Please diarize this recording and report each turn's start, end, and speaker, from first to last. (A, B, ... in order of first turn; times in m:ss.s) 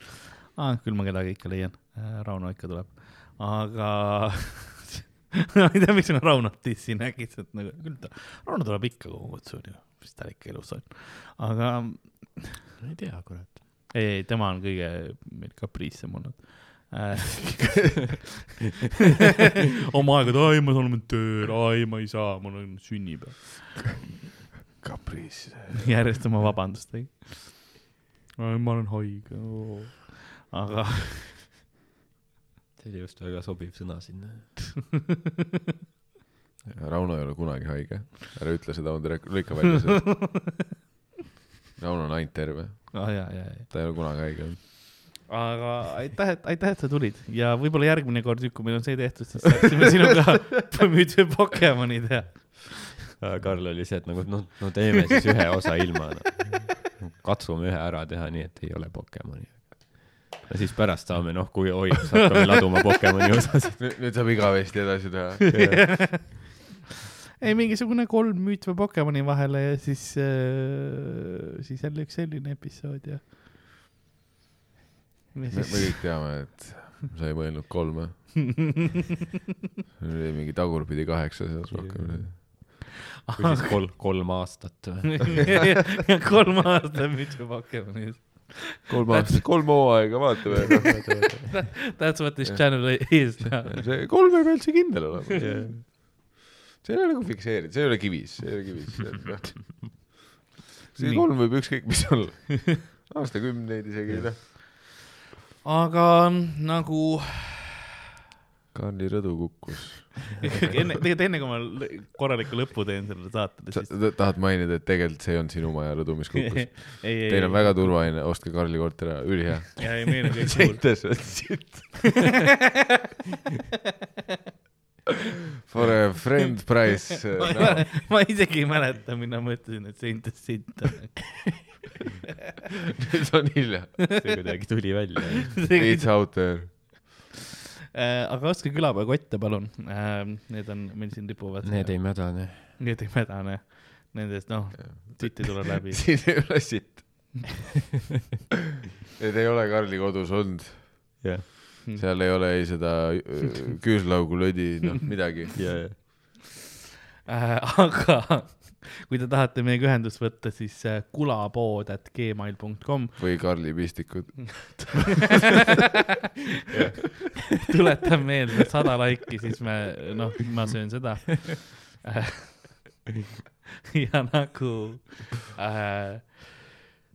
0:00.6-0:12.6 A
0:12.8-0:13.6 B
0:13.9-0:18.3 A
0:19.9-0:23.8 A
0:24.8-0:25.9 C
0:25.7-0:27.8 A
0:28.4-0:31.4 A
0:32.8-0:34.8 B
0:36.6-0:40.2 C
0:40.1-0:40.5 A
0:41.8-0:44.6 C
0:42.9-0:43.7 A
0:45.3-0:53.0 A
0:53.2-1:03.9 B
1:03.8-1:05.9 C
1:05.5-1:06.3 B
1:05.5-1:06.6 A
1:07.4-1:13.2 A
1:15.3-1:16.5 A
1:15.5-1:18.4 C
1:20.0-1:22.4 C
1:21.7-1:22.8 B
1:23.3-1:23.8 A
1:23.4-1:25.7 B
1:25.3-1:30.2 A
1:28.9-1:31.6 C
1:31.0-1:31.6 B
1:31.5-1:33.8 A
1:32.4-1:36.3 C
1:35.4-1:35.8 B
1:36.8-1:39.9 C
1:40.9-1:44.4 C
1:41.0-1:42.1 A
1:45.6-1:47.8 A
1:48.7-1:50.8 C
1:50.4-1:54.0 A
1:53.7-2:02.2 C
1:56.3-1:57.9 A
1:59.8-2:01.7 A
2:05.7-2:07.9 C
2:05.8-2:06.1 B
2:07.4-2:11.8 A
2:13.0-2:14.1 C
2:14.2-2:15.6 B
2:15.5-2:17.0 A
2:15.7-2:16.9 C
2:17.9-2:26.4 A
2:21.6-2:22.7 B
2:24.8-2:27.4 C
2:29.2-2:31.2 C
2:31.2-2:31.5 B
2:32.0-2:35.8 C
2:35.6-2:36.0 B
2:37.3-2:43.9 A
2:43.2-2:45.1 C
2:44.6-2:45.7 A
2:46.7-2:47.7 B
2:47.6-2:53.0 A
2:53.9-2:56.6 A